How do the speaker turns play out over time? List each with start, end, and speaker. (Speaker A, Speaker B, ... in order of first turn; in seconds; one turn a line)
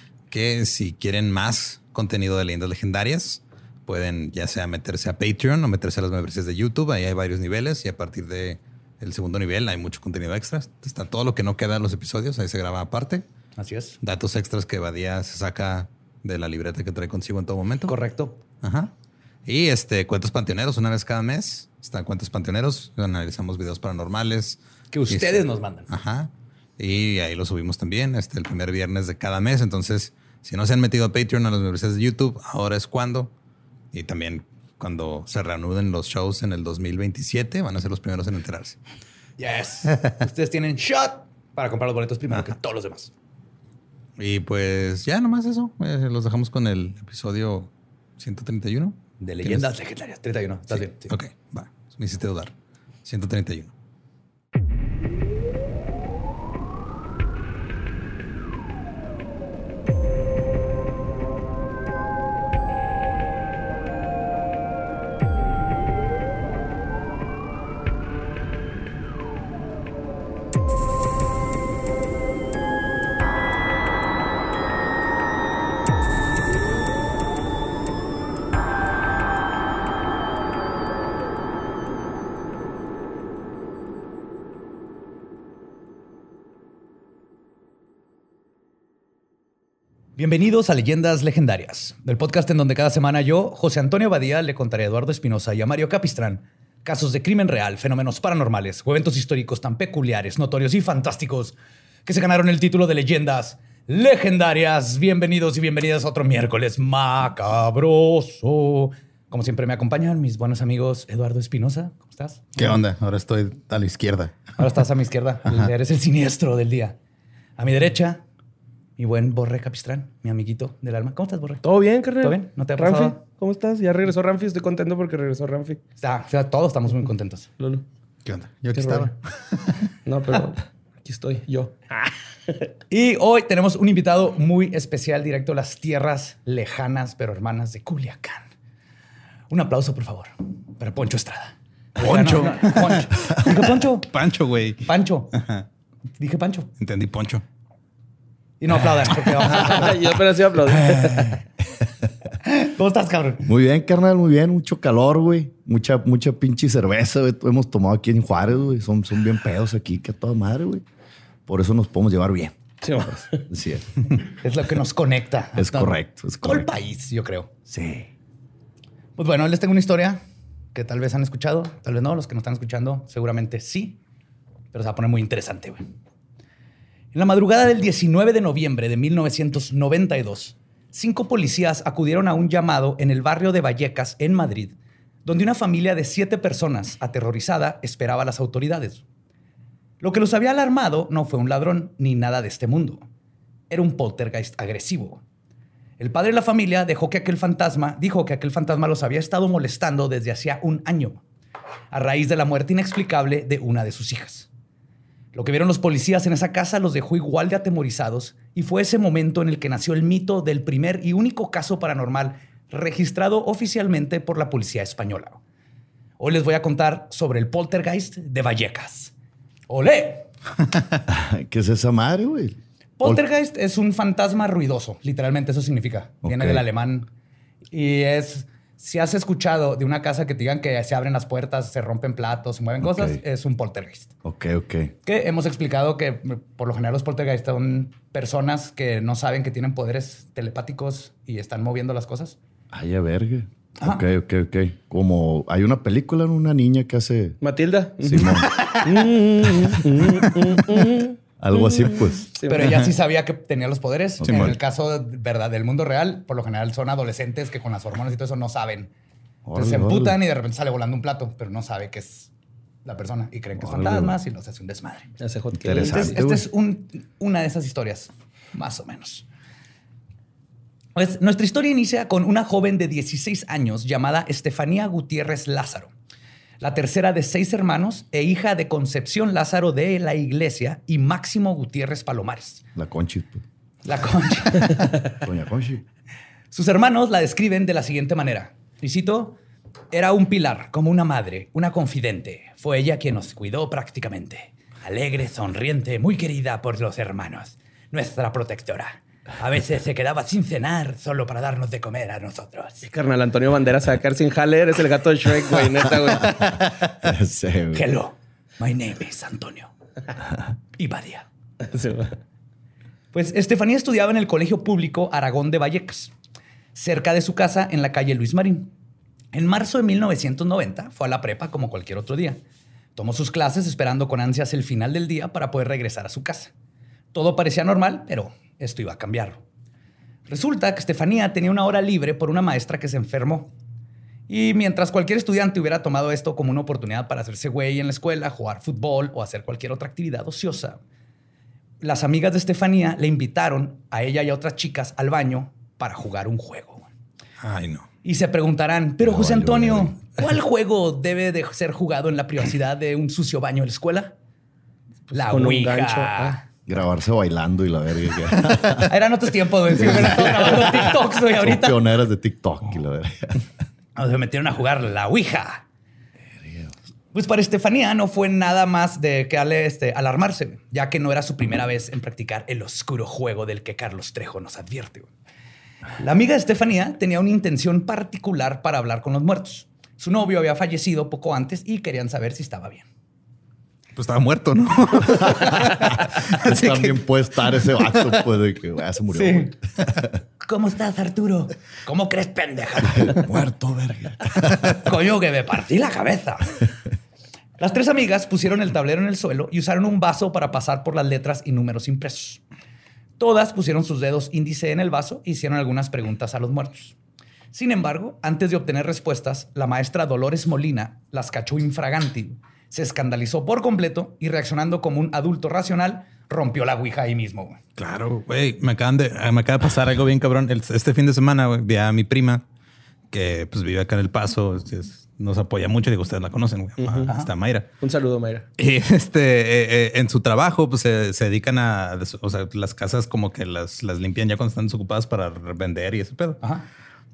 Speaker A: 0.3-13.2
Speaker B: 13.6-14.0
Speaker A: 14.0-17.9
Speaker B: 17.9-18.4
Speaker A: 18.6-18.9
Speaker A: 19.4-33.3
Speaker B: 24.9-25.9
Speaker A: 33.9-38.8
Speaker B: 39.4-43.1
Speaker A: 44.2-49.7
Speaker B: 49.2-51.1
Speaker A: 50.7-52.5
Speaker A: 53.0-53.7
Speaker B: 90.2-112.4
Speaker A: 112.5-114.5
Speaker B: 114.6-117.0
Speaker B: 117.6-118.2
Speaker B: 119.0-121.6
Speaker C: 121.6-125.8
Speaker B: 122.2-123.2
Speaker B: 126.0-127.5
Speaker C: 127.6-127.8
Speaker A: 128.2-129.8
Speaker C: 128.7-129.1
Speaker C: 130.0-132.7
Speaker B: 132.9-138.4
Speaker B: 139.5-144.1
Speaker A: 142.0-145.6
Speaker B: 144.8-145.4
Speaker B: 146.2-146.7
Speaker A: 146.8-147.4
Speaker B: 148.6-150.1
Speaker C: 149.4-151.4
Speaker D: 150.6-151.9
Speaker B: 152.4-153.5
Speaker D: 153.4-160.8
Speaker D: 161.5-164.1
Speaker C: 162.8-163.4
Speaker B: 164.3-167.5
Speaker D: 165.6-166.7
Speaker D: 167.7-168.1
Speaker B: 169.2-170.2
Speaker B: 170.7-174.0
Speaker B: 174.7-175.8
Speaker B: 177.1-189.0
Speaker B: 190.0-193.0
Speaker B: 193.7-195.2
Speaker B: 196.0-201.2
Speaker B: 201.9-204.5
Speaker B: 205.3-215.4
Speaker B: 216.2-219.1
Speaker B: 219.7-220.3
Speaker D: 221.1-223.2
Speaker B: 223.0-227.1
Speaker D: 226.2-226.6
Speaker B: 227.7-234.1
Speaker D: 232.8-233.2
Speaker D: 234.2-234.9
Speaker B: 235.0-242.4
Speaker D: 242.7-247.4
Speaker C: 247.4-252.8
Speaker D: 248.0-248.5
Speaker A: 248.6-248.9
Speaker D: 249.6-250.8
Speaker D: 251.4-252.3
Speaker B: 252.5-258.9
Speaker A: 252.6-252.9
Speaker D: 254.2-254.6
Speaker A: 254.2-254.5
Speaker D: 259.4-260.2
Speaker B: 259.5-262.3
Speaker B: 262.8-265.1
Speaker D: 263.6-264.1
Speaker C: 265.2-266.2
Speaker D: 265.6-266.4
Speaker B: 265.8-269.2
Speaker B: 270.9-275.9
Speaker B: 276.6-282.6
Speaker D: 282.7-283.4
Speaker B: 283.8-284.9
Speaker D: 285.1-285.8
Speaker B: 286.5-289.4
Speaker B: 289.9-302.9
Speaker C: 302.8-306.6
Speaker D: 306.1-307.8
Speaker B: 307.7-309.7
Speaker B: 310.8-311.2
Speaker C: 311.6-312.2
Speaker B: 313.1-316.1
Speaker B: 316.7-318.7
Speaker B: 319.3-322.4
Speaker B: 322.9-326.5
Speaker B: 327.1-329.4
Speaker B: 330.3-333.5
Speaker B: 334.3-340.8
Speaker B: 341.8-346.9
Speaker A: 347.4-347.9
Speaker B: 348.0-354.1
Speaker D: 349.0-349.9
Speaker C: 355.1-356.4
Speaker B: 355.1-356.4
Speaker D: 356.7-358.9
Speaker B: 358.8-361.8
Speaker D: 359.7-363.4
Speaker B: 363.9-365.6
Speaker D: 366.4-366.7
Speaker B: 367.1-375.1
Speaker B: 376.0-382.8
Speaker A: 383.9-386.9
Speaker D: 385.7-390.1
Speaker B: 389.1-389.5
Speaker B: 390.4-393.2
Speaker D: 392.8-394.8
Speaker B: 394.7-396.5
Speaker B: 397.6-402.4
Speaker B: 403.2-406.9
Speaker B: 407.5-417.6
Speaker A: 417.8-422.4
Speaker A: 423.1-427.7
Speaker C: 426.8-427.1
Speaker C: 427.8-428.4
Speaker A: 428.6-436.4